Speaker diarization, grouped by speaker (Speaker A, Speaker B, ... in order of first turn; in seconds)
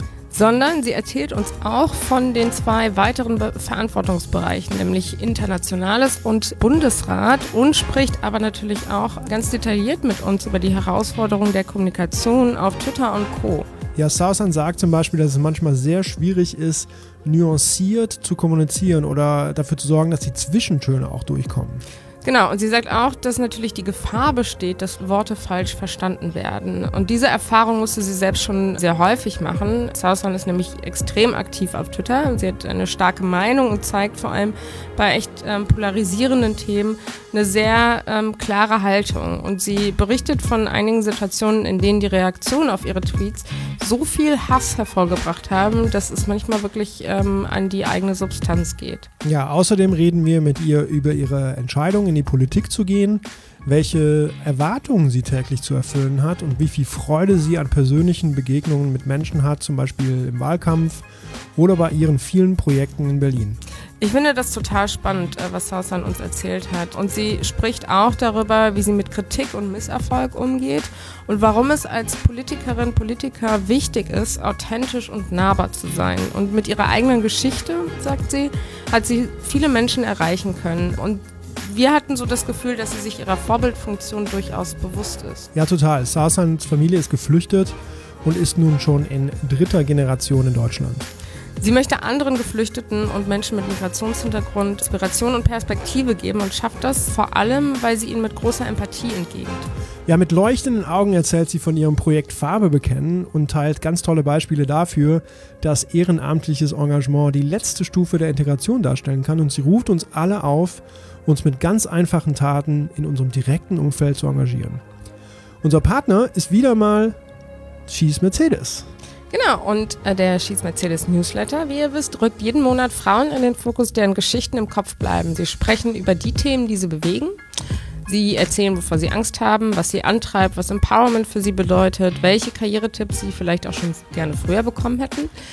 Speaker A: 0.3-13.7, 22.2-49.1, 64.0-85.5, 91.6-99.7, 119.3-127.4, 128.1-135.3
Speaker B: 13.9-21.8, 49.2-61.0, 61.5-63.6, 85.5-91.1, 100.1-114.8, 115.6-117.2, 117.9-118.9